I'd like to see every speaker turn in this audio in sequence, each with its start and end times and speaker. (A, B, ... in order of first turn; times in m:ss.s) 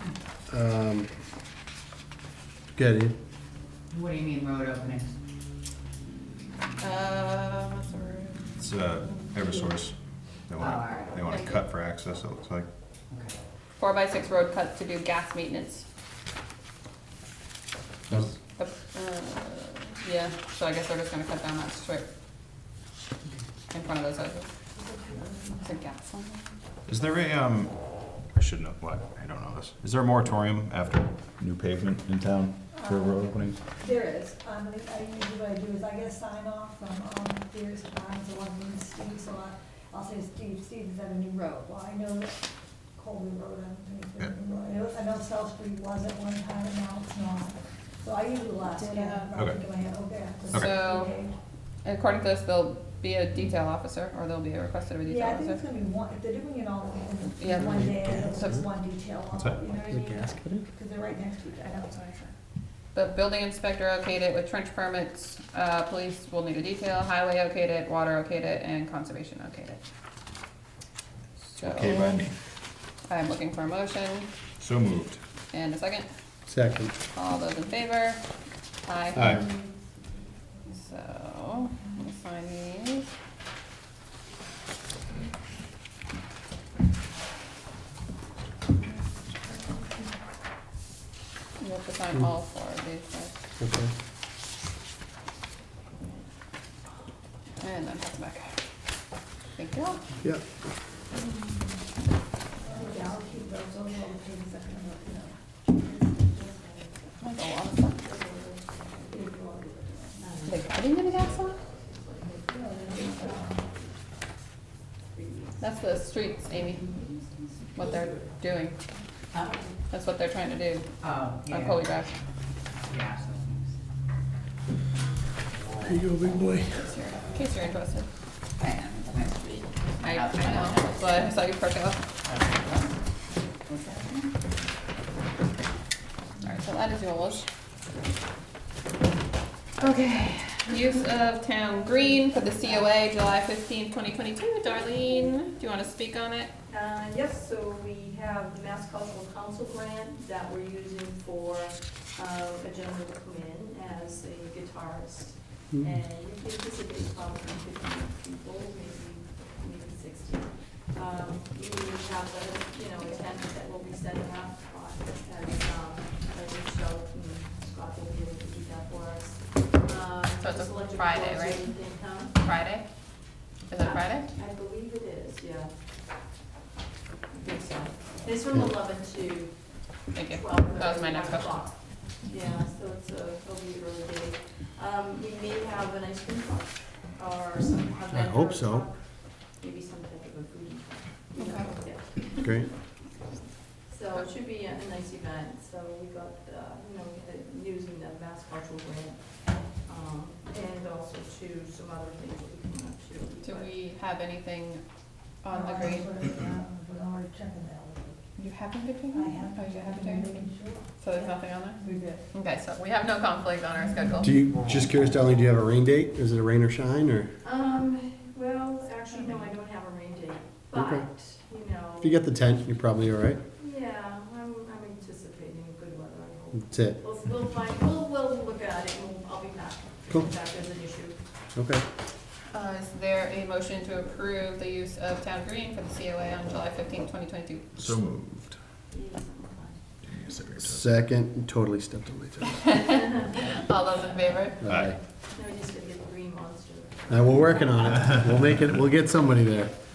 0:00.5-0:01.1 A
0:02.7-0:03.1 A
0:03.9-0:05.1 B
0:06.8-0:08.4 C
0:08.6-0:09.9 D
0:10.5-0:12.7 D
0:10.6-0:11.2 B
0:11.3-0:11.6 C
0:13.1-0:13.4 B
0:13.8-0:15.8 C
0:18.5-0:22.1 C
0:23.7-0:24.5 C
0:24.8-0:25.7 E
0:25.6-0:26.5 C
0:26.9-0:33.6 D
0:32.7-0:42.4 E
0:42.9-0:51.3 E
0:48.7-0:49.3 C
0:49.3-0:49.6 D
0:50.5-0:51.1 C
0:51.8-0:55.6 C
0:55.1-1:02.2 E
0:57.4-0:58.6 C
0:57.7-0:58.5 A
0:59.3-0:59.6 D
0:59.8-1:00.6 A
1:02.9-1:09.8 C
1:11.5-1:12.2 C
1:11.6-1:12.4 D
1:13.1-1:14.3 C
1:14.6-1:15.2 D
1:15.5-1:16.1 C
1:16.5-1:16.9 A
1:17.1-1:18.2 C
1:18.8-1:19.4 C
1:19.1-1:19.4 A
1:20.7-1:23.1 C
1:31.6-1:33.3 C
1:33.6-1:33.9 A
1:37.6-1:38.5 C
1:39.6-1:40.0 C
1:42.6-1:46.5 E
1:47.2-1:48.0 C
1:48.0-1:49.2 F
1:49.1-1:50.2 E
1:50.2-1:50.6 F
1:50.5-1:51.6 C
1:51.5-1:53.9 F
1:52.4-1:53.7 E
1:55.1-1:55.6 F
1:55.6-1:56.9 C
1:56.6-1:58.2 F
1:57.7-1:58.8 C
1:59.4-1:59.7 F
1:59.9-2:02.1 C
2:01.0-2:01.9 B
2:02.8-2:03.7 B
2:05.8-2:06.9 A
2:06.8-2:08.1 C
2:08.6-2:11.4 B
2:10.0-2:12.1 C
2:12.2-2:12.9 B
2:13.6-2:14.3 B
2:16.4-2:17.4 C
2:19.8-2:26.5 C
2:26.7-2:52.4 F
2:50.4-2:54.3 C
2:53.8-2:55.7 F
2:57.3-3:12.5 F
3:00.1-3:01.6 C
3:08.1-3:08.9 A
3:11.4-3:11.7 C
3:12.4-3:12.7 A
3:13.8-3:23.7 F
3:23.4-3:24.8 C
3:25.4-3:26.1 C
3:25.5-3:28.2 E
3:28.4-3:30.3 C
3:29.1-3:32.2 E
3:31.0-3:34.3 C
3:34.2-3:37.3 A
3:37.4-3:42.1 F
3:39.0-3:39.4 C
3:40.7-3:41.1 A
3:42.0-3:43.4 A
3:43.6-3:51.2 F
3:46.6-3:47.0 A
3:51.5-3:51.8 A
3:52.5-3:58.0 C
3:57.8-3:58.6 D
3:58.9-3:59.8 F
4:00.0-4:00.9 D
4:00.6-4:02.8 A
4:02.7-4:03.4 F
4:03.4-4:04.7 C
4:04.6-4:05.0 A
4:04.6-4:08.1 F
4:04.7-4:05.0 D
4:07.1-4:09.7 A